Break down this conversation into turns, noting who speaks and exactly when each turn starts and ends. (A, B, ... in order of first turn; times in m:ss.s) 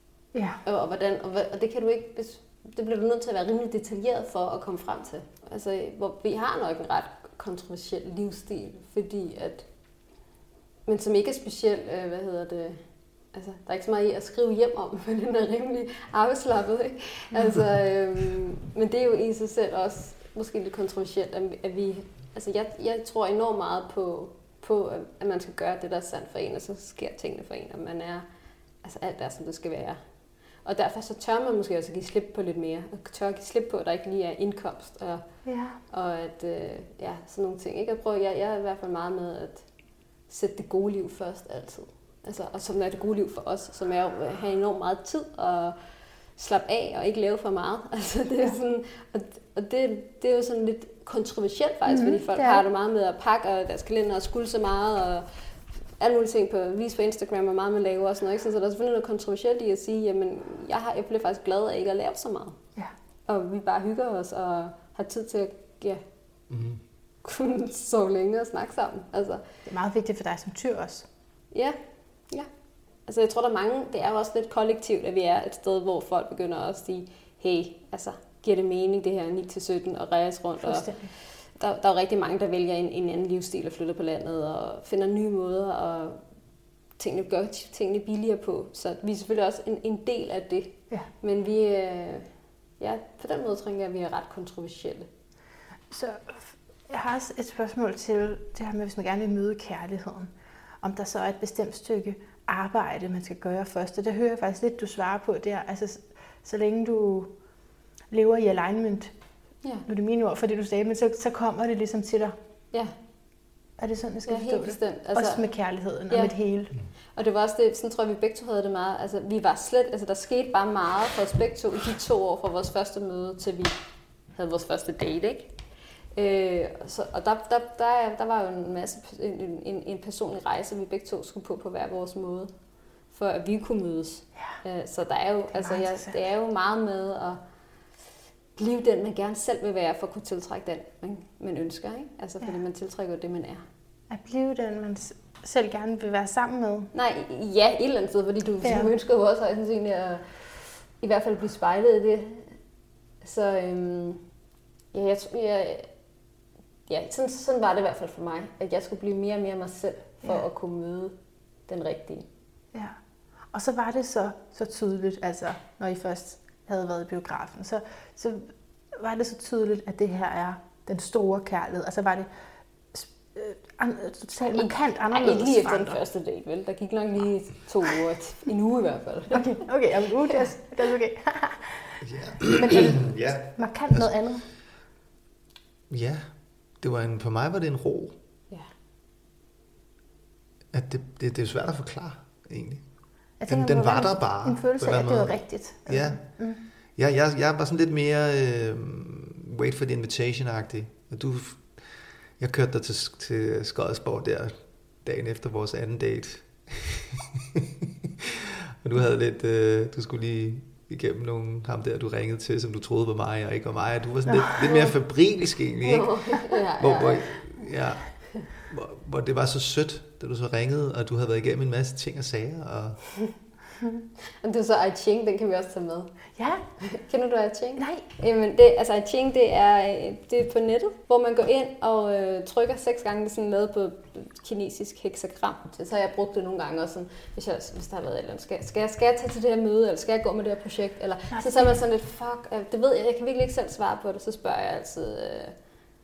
0:00.3-0:00.6 A
0:00.6-0:09.6 B
0:10.9-0:12.8 B
0:13.3-0:28.3 B
0:28.8-0:30.0 B
0:30.6-0:35.2 B
0:35.5-0:35.8 A
0:35.9-0:39.6 B
0:40.3-0:45.8 B
0:46.4-0:55.3 B
0:51.9-0:52.6 A
0:56.0-1:02.6 B
1:03.3-1:06.0 B
1:06.5-1:06.8 C
1:07.2-1:09.4 B
1:09.7-1:11.1 A
1:13.1-1:26.2 B
1:20.6-1:21.1 A
1:27.0-1:32.3 B
1:32.8-1:35.1 B
1:35.9-1:40.3 A
1:40.8-1:47.3 A
1:48.1-1:49.1 A
1:49.9-1:52.4 A
1:53.8-1:56.7 A
1:54.3-1:55.5 B
1:56.1-1:56.4 B
1:57.2-2:03.8 B
2:04.4-2:05.5 B
2:06.2-2:12.5 B
2:13.1-2:17.4 B
2:15.5-2:16.2 A
2:18.6-2:23.6 B
2:24.1-2:26.9 A
2:26.9-2:30.5 B
2:28.6-2:28.9 A
2:31.0-2:32.5 B
2:33.2-2:34.2 B
2:34.9-2:35.9 B
2:36.9-2:41.2 B
2:41.7-2:42.3 B
2:43.5-2:52.3 A
2:52.9-2:56.0 A
2:54.5-2:59.5 B
2:59.3-3:04.5 A
3:02.0-3:04.1 C
3:05.9-3:08.2 C
3:10.7-3:12.8 C
3:13.4-3:16.6 A
3:13.5-3:16.4 C
3:17.0-3:21.8 C
3:22.4-3:36.2 C
3:34.3-3:34.9 A
3:35.8-3:37.7 B
3:36.8-3:43.0 C
3:44.4-3:46.1 B
3:46.4-3:46.6 A
3:46.8-4:05.6 B
3:47.8-3:48.0 A
4:01.3-4:01.7 A